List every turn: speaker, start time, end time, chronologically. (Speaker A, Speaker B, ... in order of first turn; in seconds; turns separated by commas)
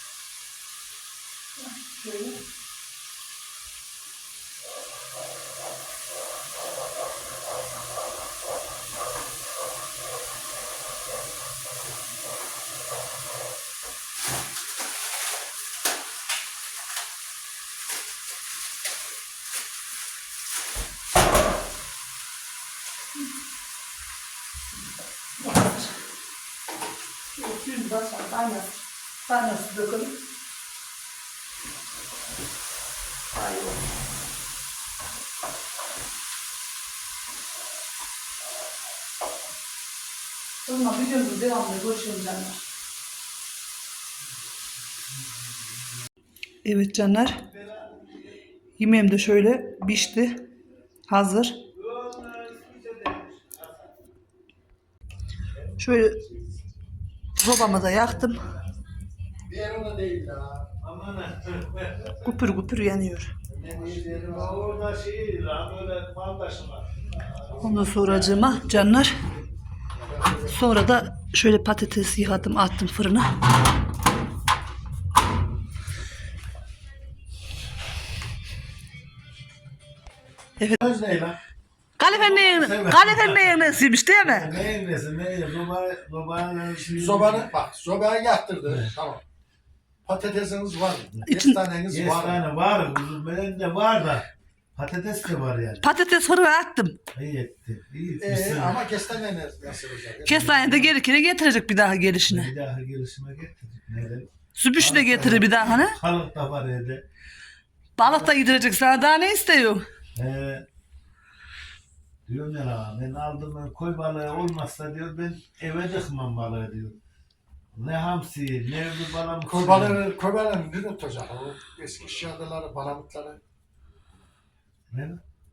Speaker A: 1.6-2.4, Speaker A: 25.4-25.9, Speaker A: 27.3-30.2, Speaker A: 33.3-33.8, Speaker A: 40.6-42.6, Speaker A: 46.6-47.5, Speaker B: 47.6-48.0, Speaker A: 48.8-50.4, Speaker A: 51.1-51.6, Speaker B: 51.7-53.9, Speaker A: 55.8-56.2, Speaker A: 57.4-58.5, Speaker C: 59.4-60.7, Speaker B: 60.8-62.2, Speaker A: 62.2-63.3, Speaker B: 63.5-68.8, Speaker C: 63.7-64.7, Speaker A: 67.6-69.2, Speaker C: 70.0-70.5, Speaker A: 70.5-73.3, Speaker B: 80.8-81.4, Speaker A: 82.0-84.5, Speaker B: 82.1-87.5, Speaker C: 86.8-89.2, Speaker C: 90.0-92.4, Speaker A: 91.2-91.6, Speaker B: 91.9-95.9, Speaker A: 95.8-97.0, Speaker B: 97.1-98.8, Speaker C: 98.2-100.8, Speaker A: 100.2-102.5, Speaker B: 100.4-100.6, Speaker B: 102.3-107.0, Speaker A: 104.5-106.0, Speaker A: 108.0-109.8, Speaker B: 110.2-110.6, Speaker B: 112.2-117.0, Speaker B: 117.7-120.0, Speaker C: 119.5-123.4, Speaker B: 124.9-125.2